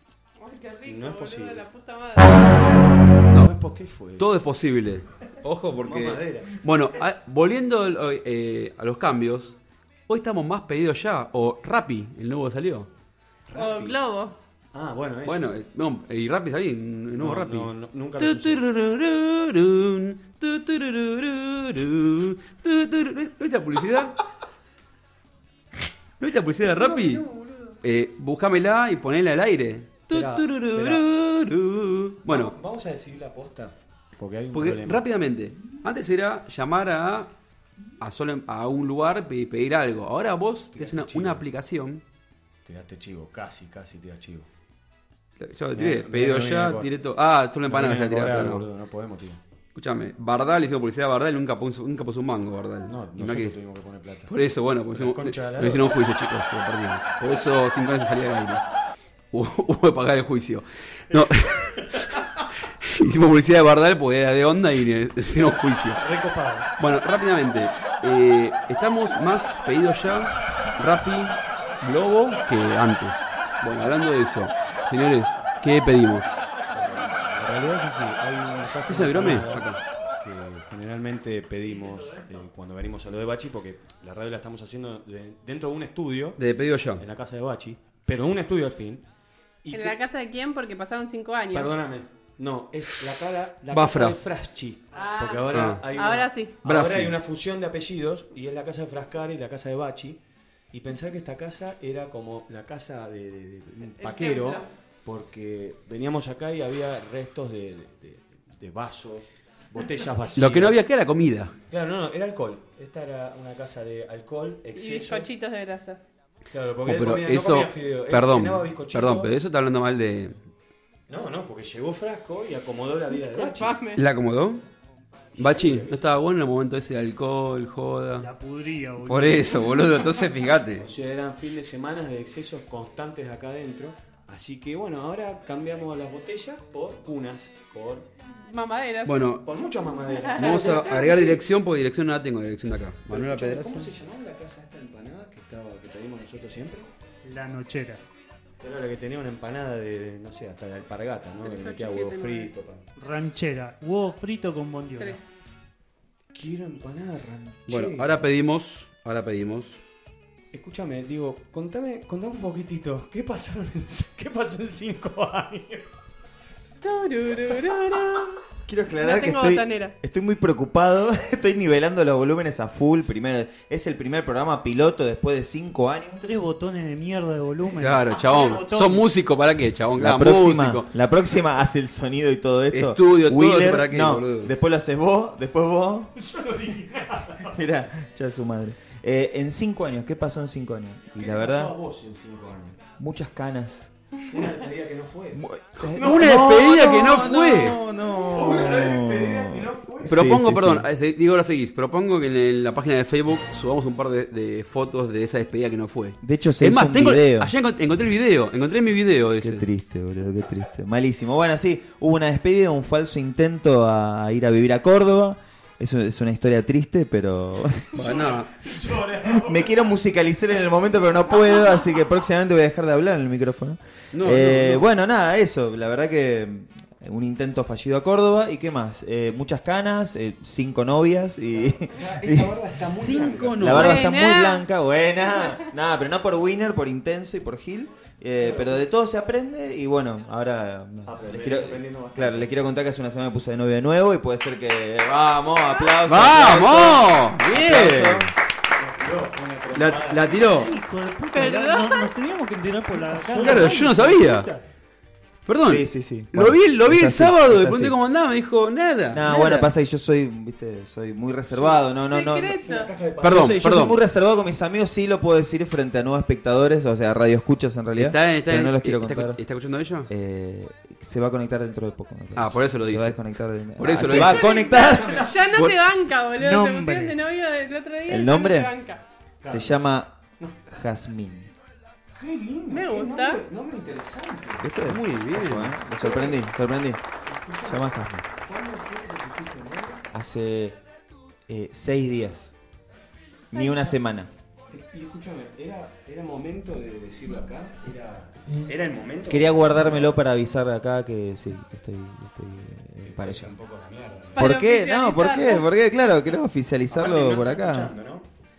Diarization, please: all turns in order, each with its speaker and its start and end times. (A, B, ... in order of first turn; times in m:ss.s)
0:00.4-0:02.6 A
0:00.8-0:01.6 B
0:03.3-0:03.5 C
0:03.3-0:04.4 B
0:04.2-0:09.6 C
0:05.8-0:06.5 B
0:10.1-0:12.9 C
0:13.5-0:14.0 B
0:13.5-0:14.4 A
0:14.7-0:15.5 B
0:15.2-0:24.2 C
0:17.2-0:18.6 B
0:26.2-0:27.2 C
0:26.6-0:27.8 B
0:27.8-0:32.6 C
0:30.1-0:31.0 B
0:32.3-0:35.0 B
0:34.5-0:37.3 C
0:38.0-0:42.0 C
0:40.7-0:41.4 B
0:42.6-0:44.5 B
0:45.4-0:48.6 C
0:45.7-0:46.9 B
0:47.7-0:49.4 B
0:49.7-0:53.6 C
0:52.8-0:54.3 B
0:54.3-0:58.6 C
0:54.9-0:55.9 B
0:59.3-1:06.0 C
1:06.0-1:06.7 B
1:06.8-1:16.3 C
1:16.7-1:26.4 B
1:18.8-1:19.8 C
1:21.6-1:22.4 D
1:26.4-1:27.0 C
1:27.0-1:29.0 B
1:29.6-1:30.0 B
1:29.7-1:31.7 A
1:31.5-1:40.2 B
1:33.7-1:34.2 C
1:34.9-1:36.5 A
1:35.5-1:35.8 C
1:36.6-1:37.2 C
1:40.7-1:50.8 B
1:44.0-1:44.7 A
1:50.3-1:51.5 C
1:51.7-1:55.3 B
1:54.7-1:56.0 A
1:56.5-1:59.3 B
1:56.8-2:00.4 C
2:01.1-2:03.8 B
2:03.1-2:04.0 A
2:04.0-2:04.6 C
2:05.4-2:06.2 B
2:05.4-2:08.3 C
2:08.2-2:10.0 D
2:09.0-2:10.9 C
2:10.8-2:18.1 B
2:18.4-2:19.2 A
2:19.0-2:19.5 C
2:19.4-2:21.4 B
2:20.1-2:21.1 A
2:20.3-2:23.9 C
2:23.1-2:26.9 B
2:27.2-2:28.0 D
2:28.6-2:32.9 B
2:31.4-2:32.5 A
2:33.0-2:35.2 D
2:36.3-2:38.2 B
2:37.7-2:39.8 C
2:40.5-2:45.8 B
2:46.8-2:48.4 A
2:48.6-2:56.2 E
2:49.0-2:49.9 A
2:56.2-2:59.1 D
2:57.8-3:00.9 C
3:00.0-3:06.1 E
3:02.7-3:04.5 C
3:06.2-3:07.5 B
3:07.4-3:11.7 E
3:11.2-3:12.8 B
3:13.0-3:13.9 E
3:14.2-3:15.4 B
3:15.3-3:20.9 E
3:15.9-3:17.8 C
3:15.9-3:16.5 B
3:18.1-3:20.2 B
3:20.1-3:29.7 C
3:26.2-3:27.5 E
3:29.4-3:38.1 E
3:37.9-3:38.5 C
3:37.9-3:39.9 B
3:39.2-3:52.6 E
3:44.1-3:44.8 C
3:51.5-3:53.8 B
3:52.9-3:54.1 C
3:53.6-4:08.3 E
3:53.8-3:54.6 A
3:58.4-3:58.8 B
4:01.0-4:02.5 B
4:06.0-4:08.3 C
4:08.7-4:10.5 B
4:09.7-4:10.7 C
4:10.4-4:14.6 D
4:11.3-4:12.1 A
4:13.1-4:14.0 B
4:13.3-4:14.5 C
4:15.4-4:19.7 C
4:15.6-4:18.0 E
4:19.1-4:22.6 E
4:21.5-4:21.8 B
4:21.9-4:22.9 A
4:22.6-4:23.7 B
4:23.2-4:24.0 C
4:23.2-4:29.4 E
4:27.9-4:30.1 C
4:30.1-4:35.4 E
4:32.4-4:34.6 C
4:34.2-4:39.0 A
4:34.9-4:35.2 B
4:35.5-4:35.8 C
4:36.3-4:37.2 D
4:38.1-4:38.7 E
4:39.4-4:39.8 B
4:39.4-4:41.5 E
4:42.1-4:44.6 B
4:42.7-4:43.4 A
4:44.6-4:47.0 E
4:44.8-4:45.7 C
4:46.0-4:46.3 A
4:47.2-4:50.0 B
4:47.6-4:48.2 E
4:50.1-4:50.8 E
4:51.5-4:52.5 E
4:53.5-4:54.3 E
4:53.5-4:53.9 A
4:54.7-5:00.2 B
4:59.3-5:03.5 E
5:03.0-5:04.6 B
5:04.3-5:05.7 A
5:04.4-5:07.9 E
5:06.9-5:08.3 B